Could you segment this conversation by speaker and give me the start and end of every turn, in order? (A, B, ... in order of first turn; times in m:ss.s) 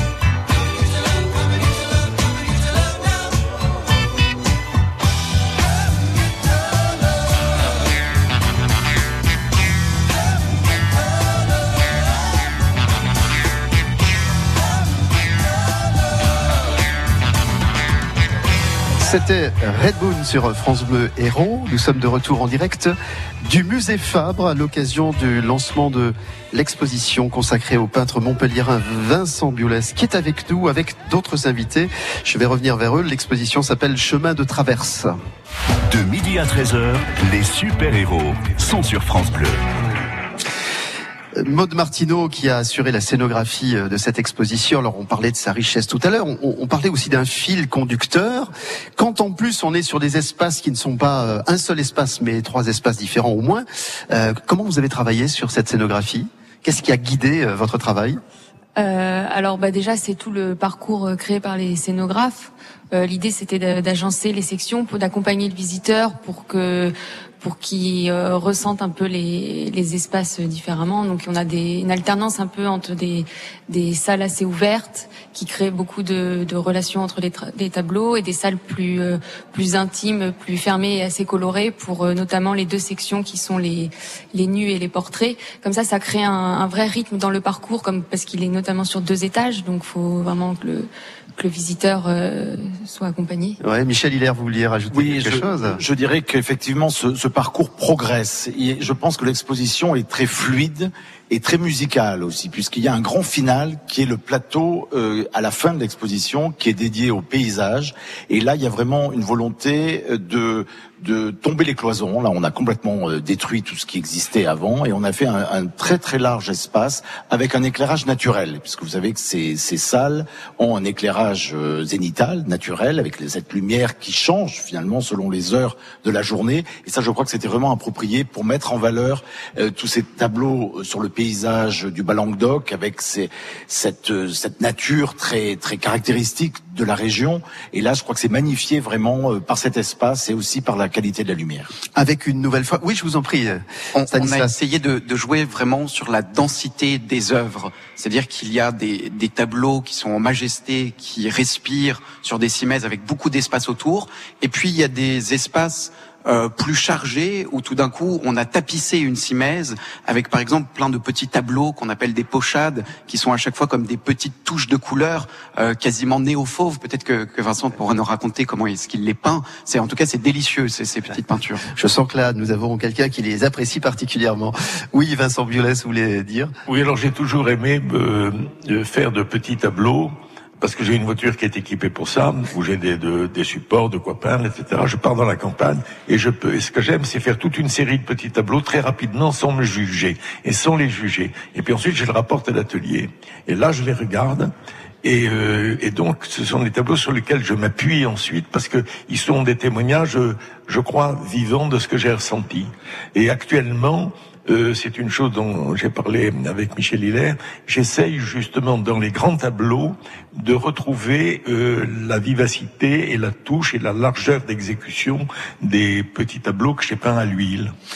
0:19.0-0:35.2 A
0:35.9-0:39.6 B
0:41.4-0:58.2 A
0:58.8-1:33.6 C
1:33.6-1:35.8 A
1:34.9-2:21.7 D
2:22.0-2:24.5 A
2:24.0-2:51.6 E
2:51.8-2:56.5 A
2:56.7-3:14.5 F
3:15.0-3:37.7 F